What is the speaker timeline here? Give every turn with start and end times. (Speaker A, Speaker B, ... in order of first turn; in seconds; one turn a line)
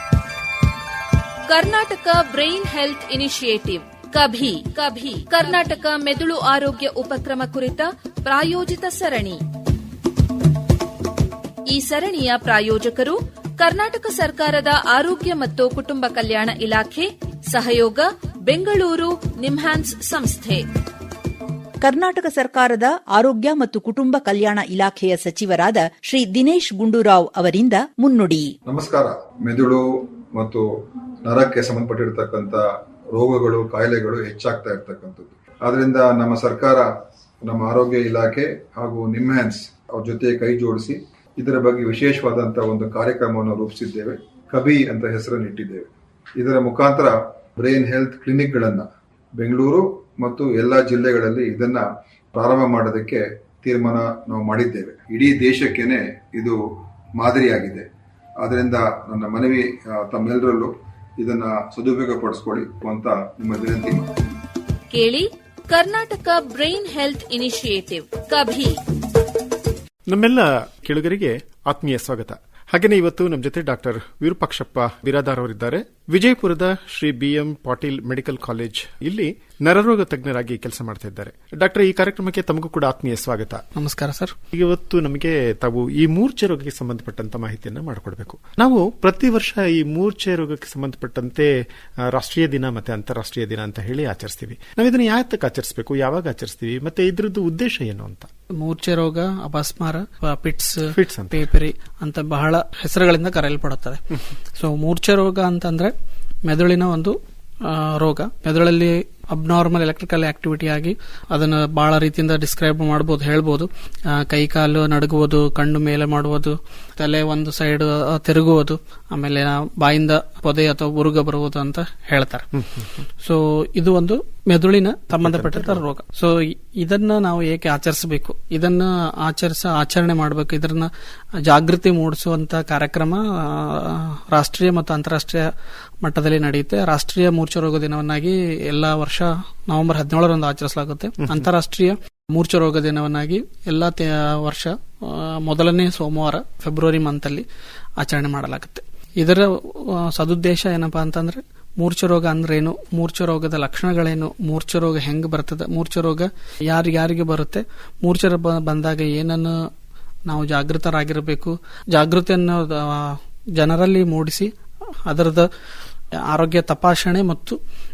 Speaker A: 1.5-9.4
Speaker A: 11.7-20.6
Speaker B: 21.8-28.5
Speaker C: 28.6-30.6
Speaker C: 31.2-36.9
Speaker C: 37.4-56.6
Speaker C: 57.1-57.9
Speaker C: 58.4-64.1
Speaker A: 64.9-68.8
Speaker D: 70.1-83.6
Speaker E: 83.7-84.3
Speaker D: 84.5-91.5
Speaker D: 92.1-98.3
Speaker E: 98.6-105.9
Speaker D: 100.9-101.4
Speaker E: 106.4-130.9
Speaker D: 122.6-122.9
Speaker D: 125.2-125.8
Speaker E: 131.4-135.5
Speaker E: 136.0-147.4
Speaker E: 148.0-159.6
Speaker E: 160.2-164.5
Speaker E: 165.0-165.5
Speaker E: 166.2-167.6